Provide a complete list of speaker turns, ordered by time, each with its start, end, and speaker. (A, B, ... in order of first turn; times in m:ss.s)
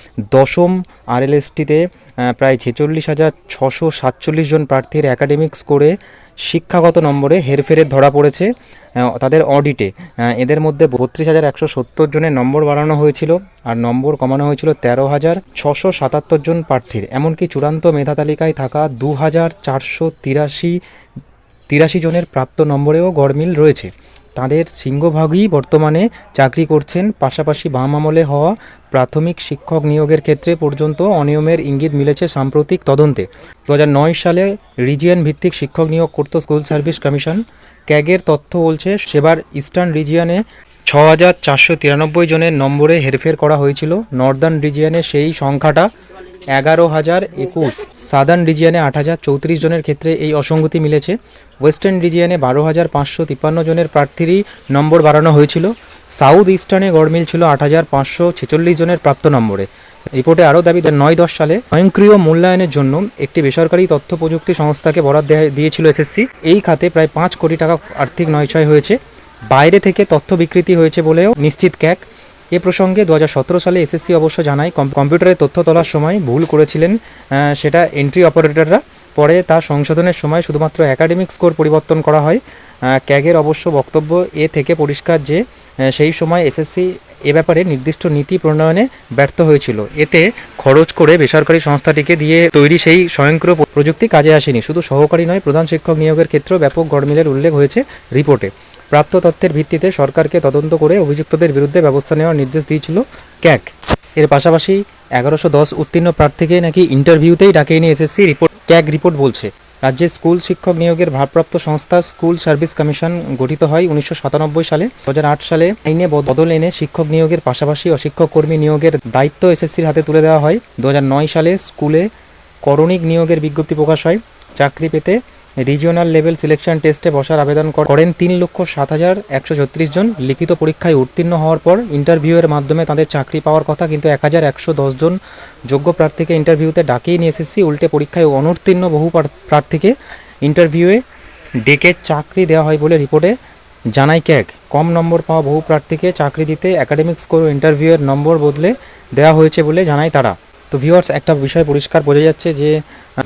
0:00.3-0:20.8 A
0:21.7-0:45.9 A
0:46.5-1:09.0 A
1:09.5-2:02.1 A
2:02.6-2:19.9 A
2:20.4-2:21.0 A
2:21.6-2:23.4 A
2:23.9-2:32.8 A